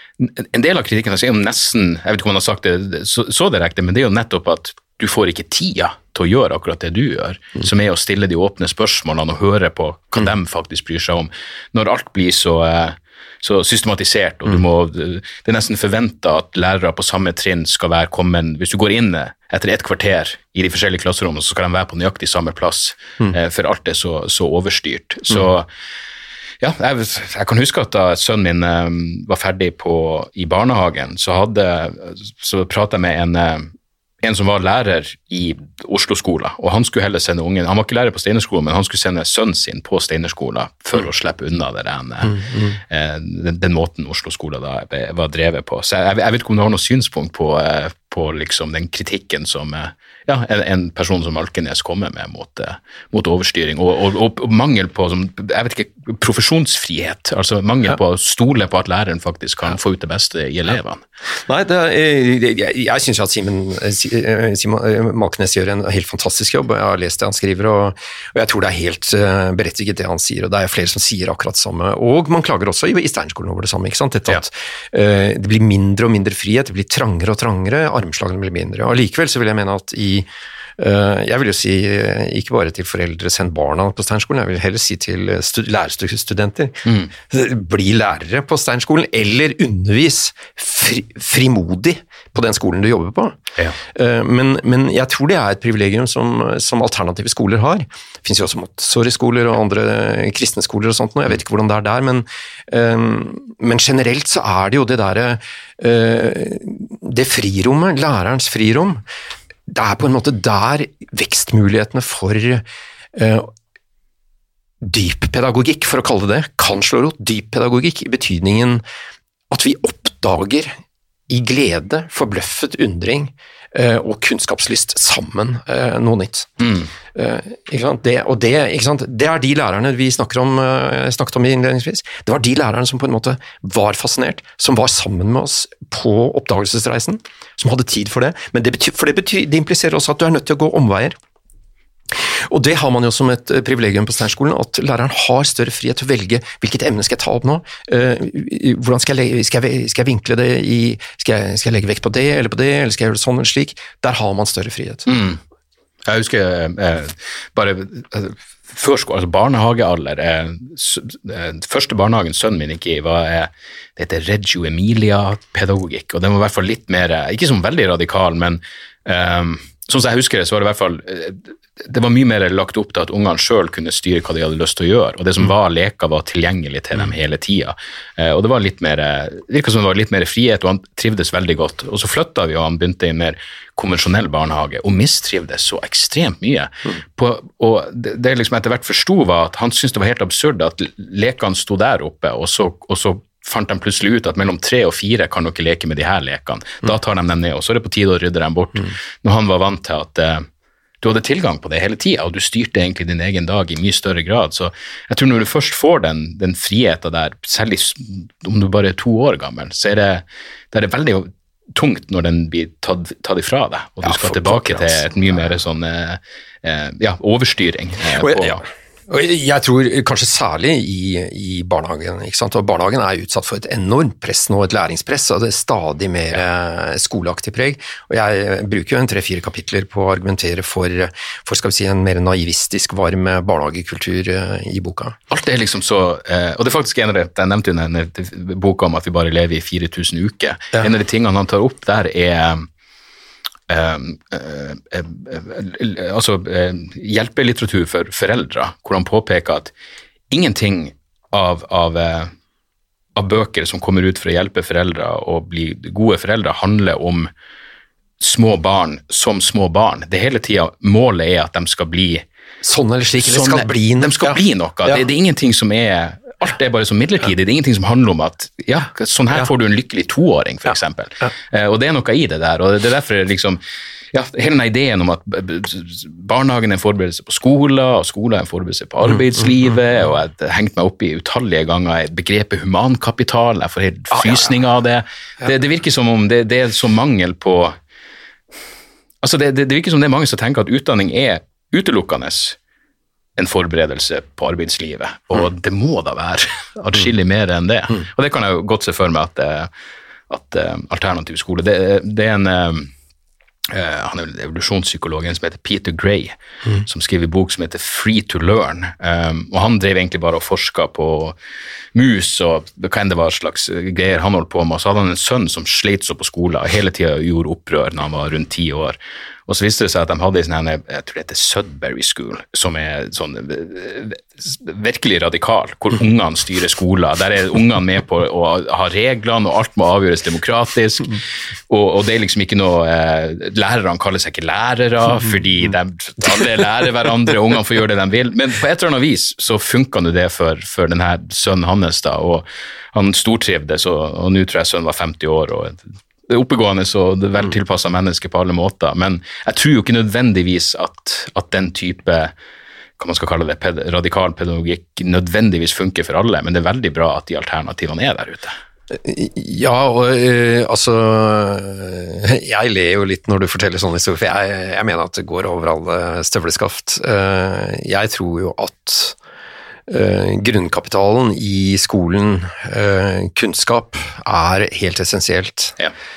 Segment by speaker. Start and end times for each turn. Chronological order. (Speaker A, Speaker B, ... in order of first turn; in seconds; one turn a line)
Speaker A: 0.2-25.7
Speaker A: 26.6-61.0
Speaker B: 42.2-42.8
Speaker B: 61.5-109.0
Speaker A: 86.9-87.1
Speaker B: 109.7-113.5
Speaker B: 114.8-118.8
Speaker B: 119.5-126.6
Speaker A: 126.6-126.9
Speaker B: 127.1-141.2
Speaker B: 142.1-155.1
Speaker A: 155.1-155.4
Speaker A: 156.1-200.5
Speaker A: 201.0-218.6
Speaker B: 214.0-215.1
Speaker B: 218.2-235.2
Speaker A: 235.3-242.7
Speaker A: 243.7-249.7
Speaker A: 250.3-252.3
Speaker A: 253.2-257.3
Speaker A: 258.2-262.3
Speaker B: 262.6-265.0
Speaker A: 263.2-273.6
Speaker B: 270.7-271.3
Speaker A: 274.1-287.8
Speaker B: 279.1-279.7
Speaker B: 284.1-284.5
Speaker A: 289.2-292.6
Speaker A: 293.4-299.7
Speaker A: 300.3-302.9
Speaker A: 303.7-311.4
Speaker A: 311.9-352.3
Speaker A: 353.0-358.6
Speaker B: 358.9-369.2
Speaker B: 369.9-375.8